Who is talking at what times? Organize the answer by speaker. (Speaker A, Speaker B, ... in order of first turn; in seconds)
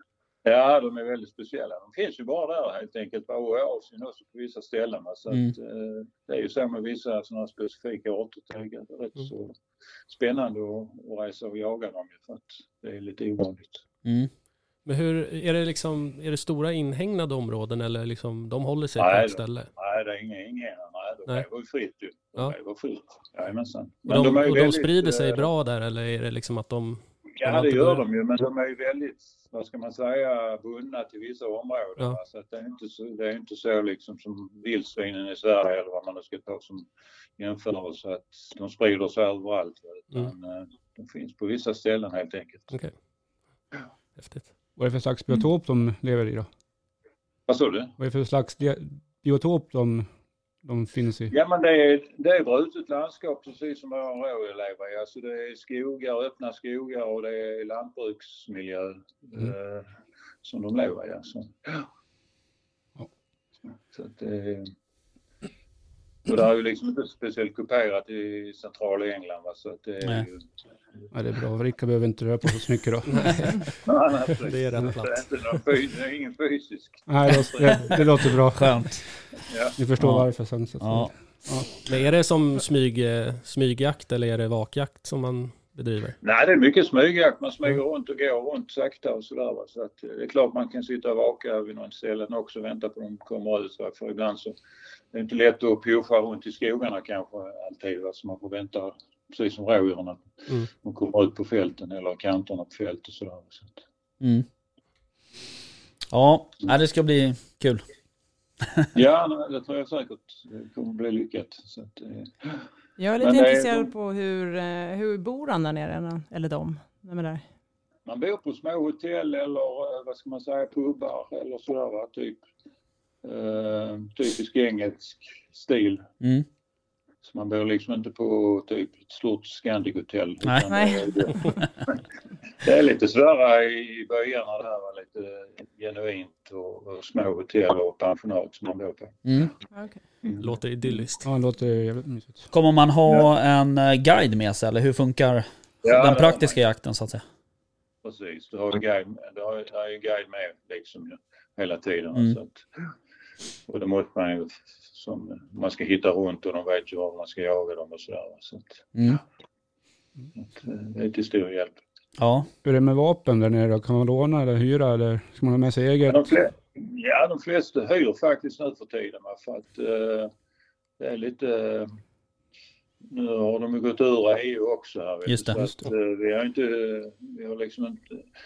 Speaker A: 0.4-9.5, 10.1-13.8, 19.0-25.5, 27.4-42.7, 47.5-47.9, 51.3-59.9, 60.4-61.9, 63.9-64.7, 66.2-70.4, 73.8-78.0, 79.5-79.8, 86.2-94.5, 95.1-103.8, 108.9-112.7, 113.2-113.9, 118.0-122.4, 123.2-126.1, 127.2-132.0, 132.6-139.5, 140.2-140.5, 145.8-146.6, 148.0-152.9, 153.7-159.2, 160.4-161.8, 166.1-170.3, 171.0-171.9, 173.0-178.2
Speaker B: 14.0-14.3, 78.5-79.0, 80.0-80.2, 80.8-81.1, 104.2-104.5, 106.1-107.8, 126.2-126.5, 139.2-139.5, 142.5-147.2, 158.9-159.2, 162.2-162.5, 175.3-175.7
Speaker C: 14.8-19.7, 24.1-28.0, 44.2-44.5, 73.1-73.7, 74.4-75.2, 81.8-86.2, 140.4-141.3
Speaker D: 44.8-46.5, 48.0-50.1, 50.6-51.3, 71.1-73.6, 77.1-78.8, 79.8-81.7, 141.2-142.5, 162.6-166.3
Speaker E: 113.0-117.4, 130.7-131.5, 139.7-140.0